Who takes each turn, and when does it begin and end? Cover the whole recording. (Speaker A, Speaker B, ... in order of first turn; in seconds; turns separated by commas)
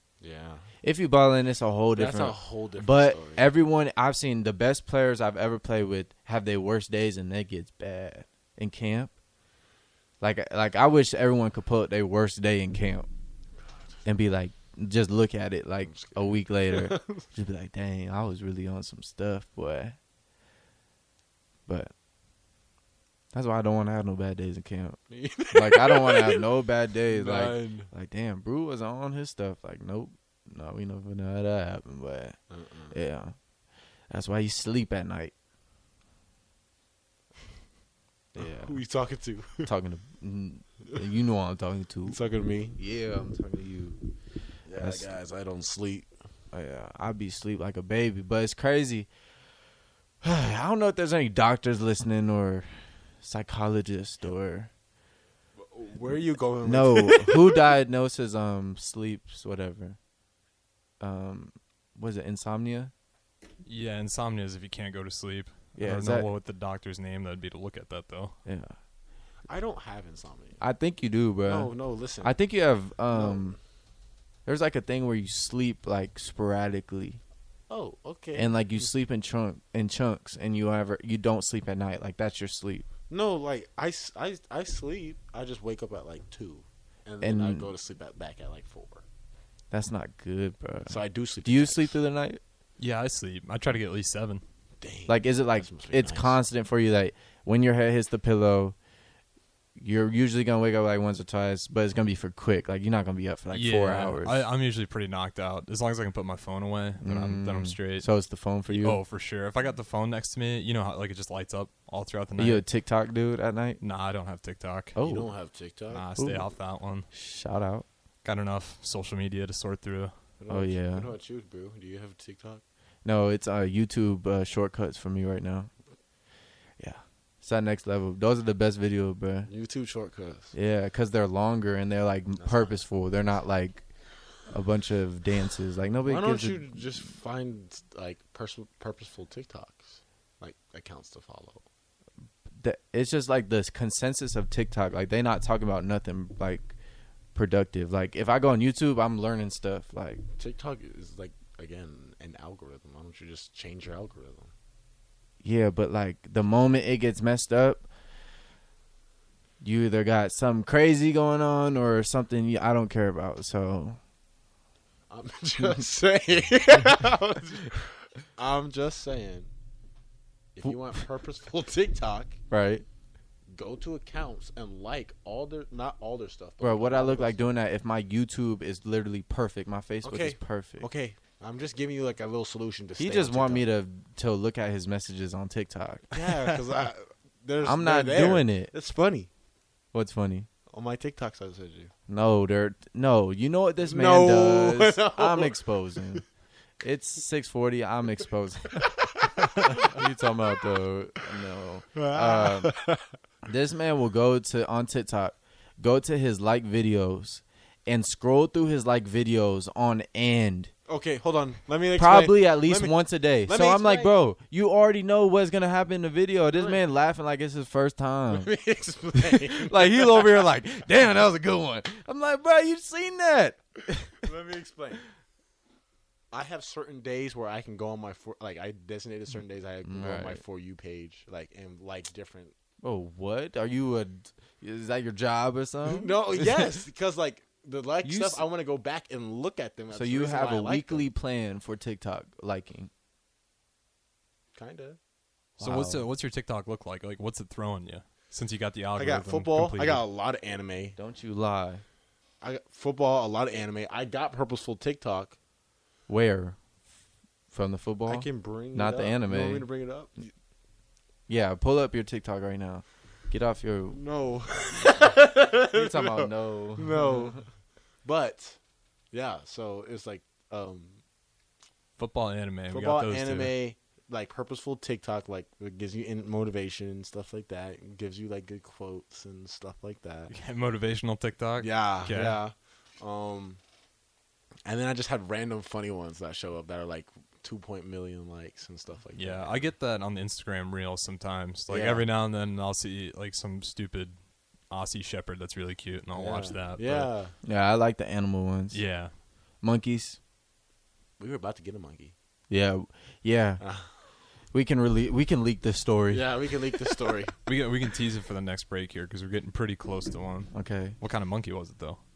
Speaker A: 0.2-0.7, Speaker B: 0.8-9.1, Speaker A: 1.9-3.5, Speaker B: 10.2-13.1, Speaker B: 14.0-20.0, Speaker A: 15.8-17.2, Speaker B: 21.7-21.9, Speaker B: 23.3-32.4, Speaker A: 25.1-26.5, Speaker A: 27.0-27.9, Speaker A: 32.5-33.0, Speaker B: 32.9-33.3, Speaker B: 34.1-35.3, Speaker B: 38.3-38.8, Speaker A: 38.4-39.7, Speaker B: 39.6-42.2, Speaker A: 42.1-42.8, Speaker B: 42.7-44.0, Speaker A: 44.6-46.1, Speaker B: 44.7-45.1, Speaker B: 46.5-49.1, Speaker B: 50.2-52.7, Speaker B: 53.2-54.7, Speaker A: 55.6-57.7, Speaker B: 56.6-60.0, Speaker B: 61.0-62.9, Speaker C: 63.6-68.3, Speaker B: 65.8-66.3, Speaker B: 68.4-68.7, Speaker A: 69.5-70.6, Speaker B: 70.6-73.6, Speaker A: 71.4-72.4, Speaker A: 73.1-73.5, Speaker B: 74.5-77.2, Speaker A: 77.7-78.5, Speaker B: 78.3-82.8, Speaker A: 83.1-89.0, Speaker B: 87.2-87.7, Speaker B: 89.7-92.4, Speaker A: 90.9-92.0, Speaker C: 92.8-94.4, Speaker A: 94.8-96.4, Speaker B: 95.1-98.8, Speaker B: 99.8-104.4, Speaker C: 103.5-112.7, Speaker B: 107.0-109.0, Speaker B: 112.4-113.8, Speaker C: 113.8-115.0, Speaker B: 114.9-115.3, Speaker A: 115.0-116.0, Speaker C: 115.9-117.1, Speaker B: 116.2-116.5, Speaker B: 117.1-117.8, Speaker C: 118.2-120.1, Speaker A: 120.4-122.6, Speaker B: 120.5-121.1, Speaker B: 123.0-125.7, Speaker B: 126.8-129.5, Speaker A: 129.4-130.5, Speaker B: 130.5-133.9, Speaker A: 132.3-132.8, Speaker B: 134.5-137.1, Speaker A: 136.0-141.6, Speaker B: 142.6-146.7, Speaker B: 147.3-150.2, Speaker A: 150.3-154.5, Speaker B: 155.4-157.8, Speaker B: 159.6-164.0, Speaker A: 165.1-169.5, Speaker A: 170.6-172.4, Speaker B: 172.5-172.8, Speaker A: 173.5-177.4, Speaker B: 176.6-180.9, Speaker A: 180.0-183.7, Speaker B: 183.0-186.6, Speaker A: 186.1-189.3, Speaker B: 187.6-188.7, Speaker B: 189.9-190.5, Speaker A: 190.7-191.9, Speaker B: 192.1-196.2, Speaker A: 193.8-196.2, Speaker B: 196.8-198.9, Speaker A: 198.8-200.0, Speaker B: 199.7-202.7, Speaker A: 201.9-203.1, Speaker B: 203.4-210.7, Speaker A: 210.9-214.2, Speaker B: 211.9-218.5, Speaker A: 216.5-216.8, Speaker A: 218.3-220.5, Speaker B: 219.1-224.3, Speaker A: 224.2-225.0, Speaker A: 226.3-232.5, Speaker B: 229.8-230.4, Speaker B: 232.8-236.8, Speaker A: 235.8-241.1, Speaker B: 238.0-238.4, Speaker B: 239.9-242.9, Speaker A: 244.5-245.0, Speaker B: 245.6-246.1, Speaker C: 245.6-250.0, Speaker A: 248.9-251.0, Speaker B: 251.0-251.8, Speaker A: 252.4-255.4, Speaker B: 256.1-256.6, Speaker B: 257.5-259.7, Speaker A: 258.1-260.3, Speaker B: 261.3-264.0, Speaker A: 263.9-267.5, Speaker B: 265.6-267.4, Speaker A: 268.0-268.6, Speaker A: 269.1-271.0, Speaker C: 272.0-273.5, Speaker A: 272.7-280.3, Speaker C: 280.3-282.4, Speaker A: 281.6-283.6, Speaker A: 284.6-289.7, Speaker C: 289.1-297.1, Speaker A: 291.7-292.1, Speaker A: 296.1-297.3, Speaker B: 297.4-298.8, Speaker C: 298.7-299.1, Speaker B: 299.6-300.2, Speaker A: 301.2-302.1, Speaker B: 302.5-303.6, Speaker A: 303.6-303.9, Speaker B: 304.5-306.9, Speaker A: 306.1-307.4, Speaker C: 307.4-312.0, Speaker B: 310.5-311.0